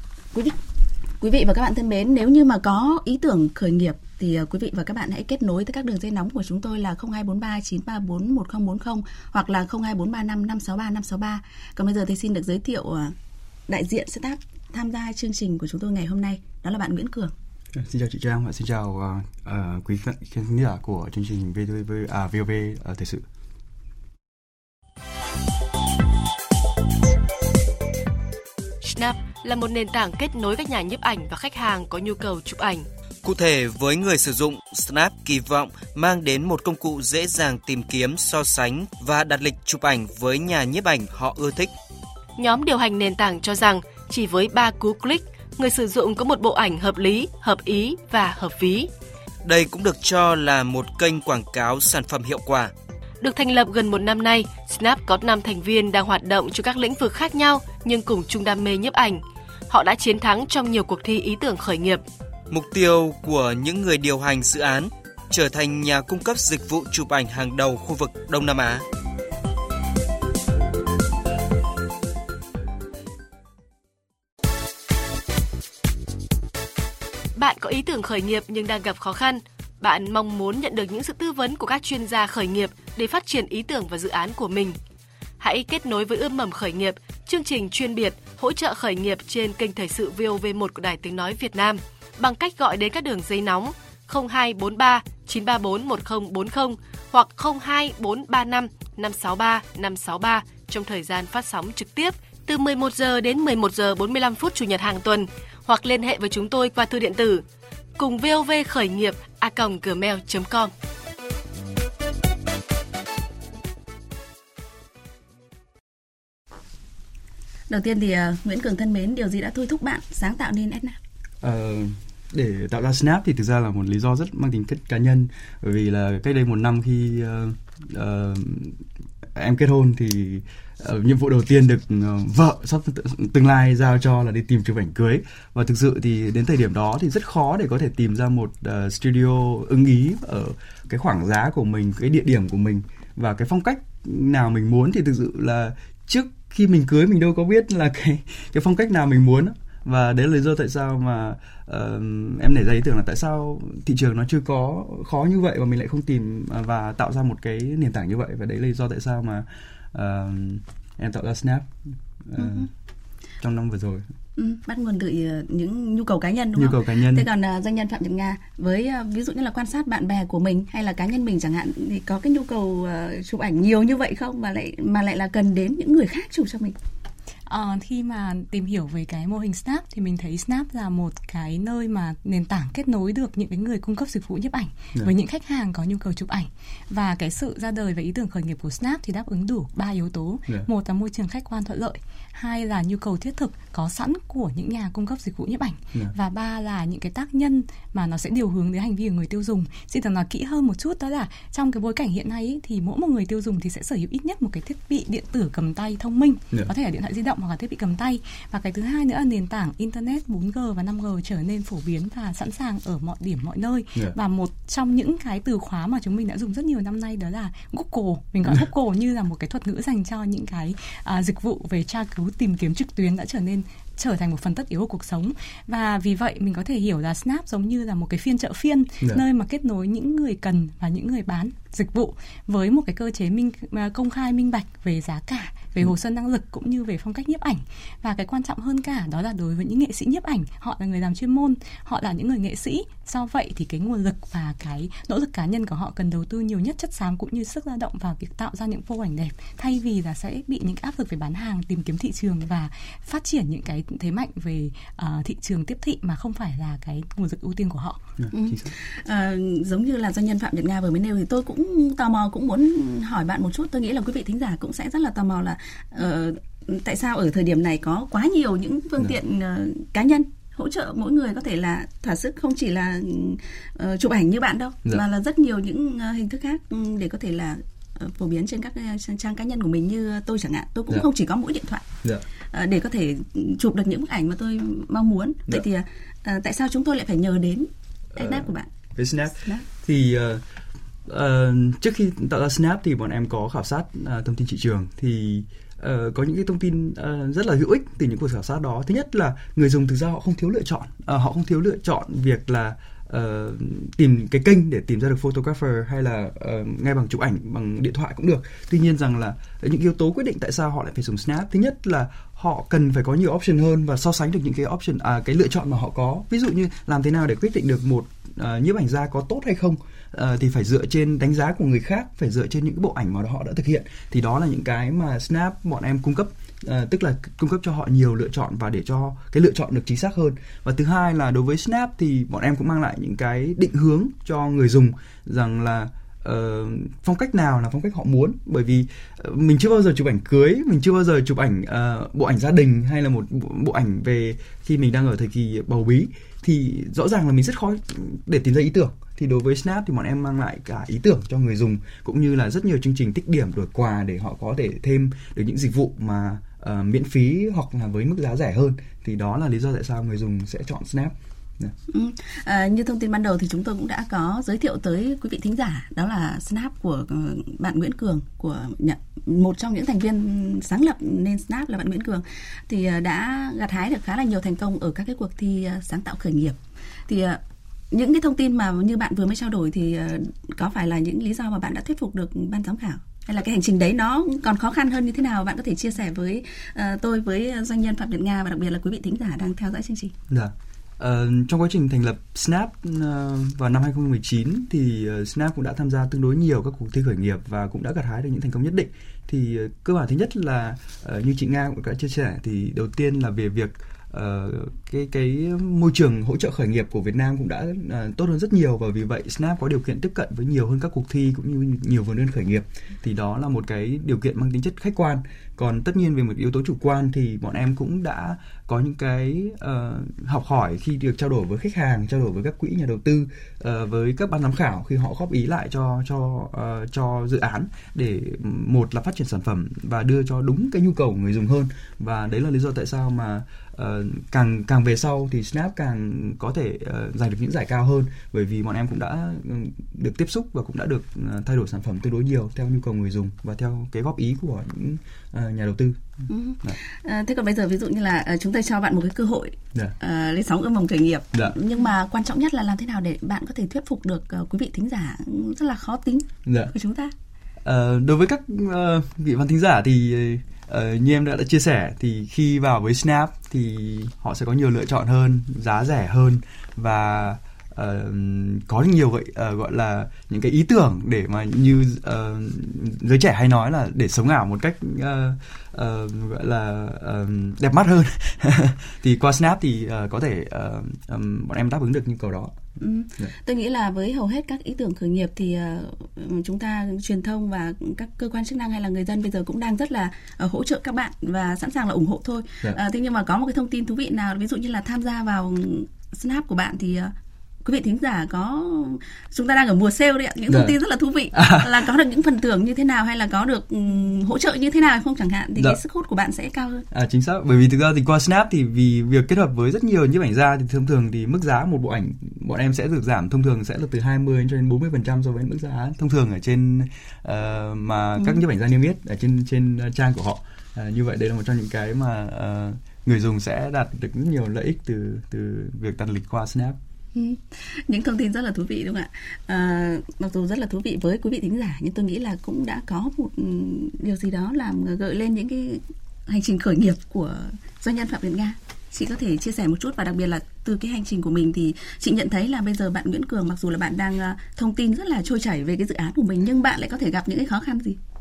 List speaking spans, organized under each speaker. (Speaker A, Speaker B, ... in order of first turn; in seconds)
Speaker A: 1.2-13.1, 13.7-17.3, 117.7-121.0, 162.4-162.7, 164.4-176.7, 258.3-281.9, 282.5-288.7, 289.4-289.6, 361.9-390.1, 446.3-457.1, 482.8-497.1, 497.6-506.9, 527.1-548.0
Speaker B: 17.7-23.2, 121.4-161.7, 162.2-162.7, 163.4-164.1, 166.5-167.3, 258.2-258.7, 288.1-290.4, 291.1-361.7, 390.3-446.0, 456.4-456.7, 457.6-482.6, 500.5-500.8, 501.3-501.8, 506.9-526.8
Speaker C: 28.8-32.9, 42.4-48.9, 53.2-62.0, 77.3-84.8, 85.4-107.4, 108.0-110.7
Speaker D: 33.2-41.7, 49.4-52.7, 62.5-68.8
Speaker E: 177.5-258.0